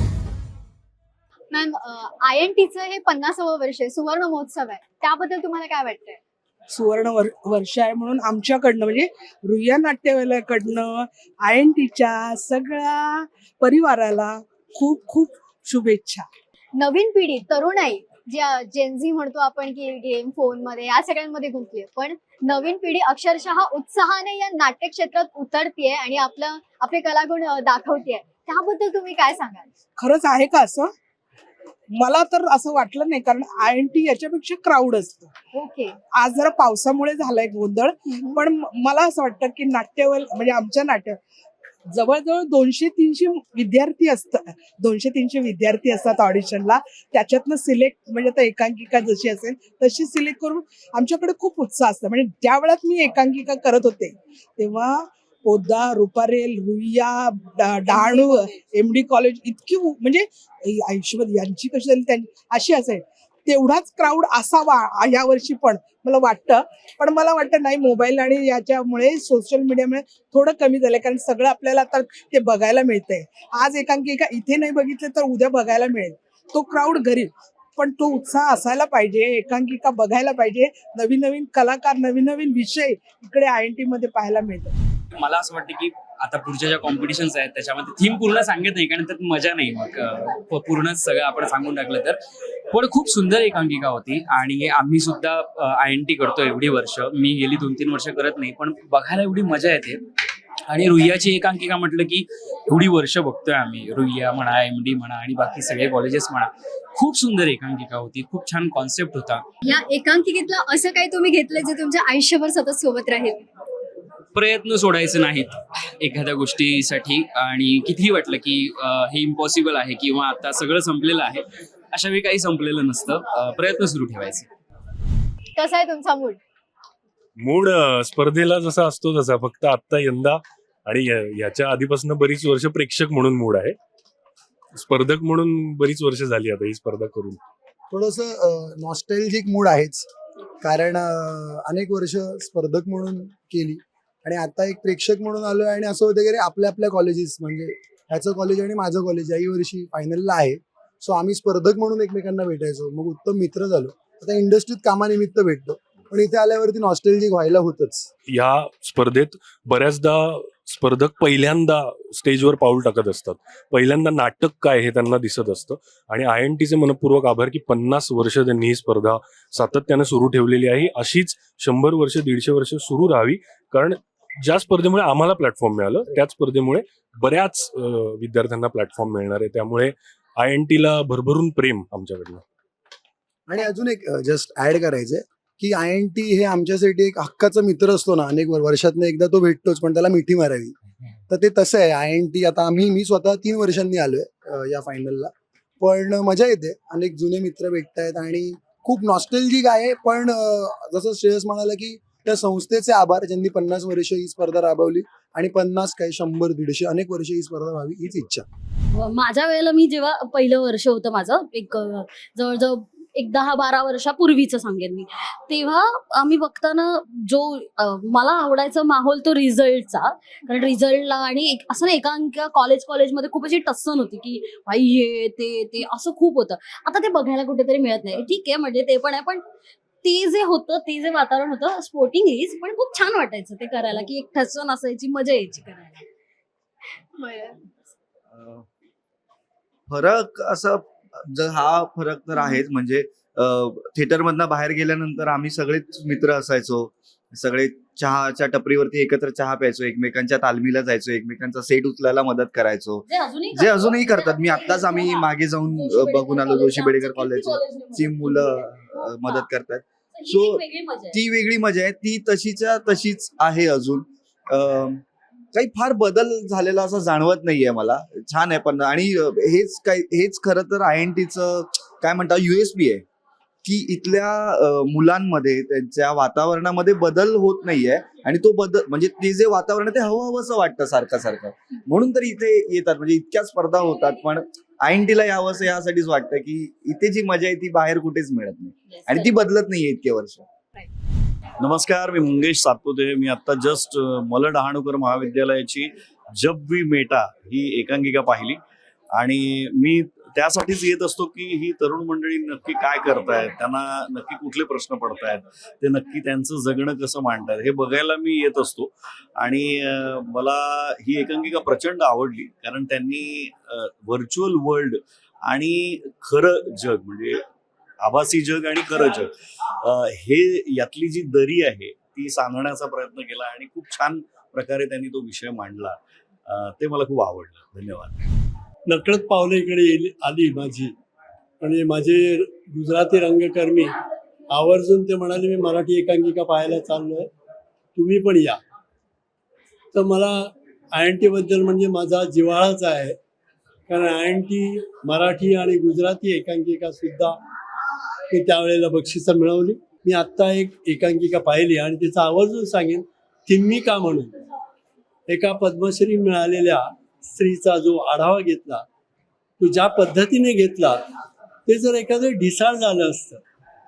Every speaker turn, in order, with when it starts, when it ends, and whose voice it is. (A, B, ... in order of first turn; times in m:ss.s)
0:01.5-0:06.2 A
0:06.7-0:16.3 B
0:16.8-0:29.7 A
0:30.0-0:30.9 B
0:32.0-0:35.3 B
0:35.5-0:36.0 A
0:36.0-0:41.2 B
0:38.1-0:38.4 A
0:41.9-1:24.7 B
0:58.0-0:58.2 A
1:25.2-1:32.2 C
1:32.7-1:40.0 C
1:40.7-1:49.4 C
1:49.6-1:53.4 A
1:54.3-2:04.5 C
2:05.6-2:06.4 A
2:07.4-2:13.8 D
2:14.7-2:17.4 D
2:17.9-2:20.1 E
2:20.6-2:38.1 E
2:38.3-3:02.4 D
3:03.5-3:10.7 E
3:11.3-3:28.4 E
3:28.9-3:49.4 F
3:50.0-3:56.0 F
3:57.2-3:57.6 A
3:58.3-3:58.6 G
3:59.9-4:25.0 G
4:13.0-4:18.6 F
4:20.2-4:21.2 F
4:25.5-4:33.0 G
4:33.6-4:50.4 G
4:51.6-4:58.6 H
4:59.2-5:17.4 H
5:18.0-5:28.3 H
5:28.9-5:30.9 I
5:31.6-5:33.9 I
5:34.5-5:37.3 I
5:38.0-5:38.6 I
5:39.9-5:43.2 I
5:43.9-5:47.4 I
5:48.3-5:54.3 I
5:55.3-5:58.8 I
5:59.6-6:01.0 I
6:01.7-6:03.4 I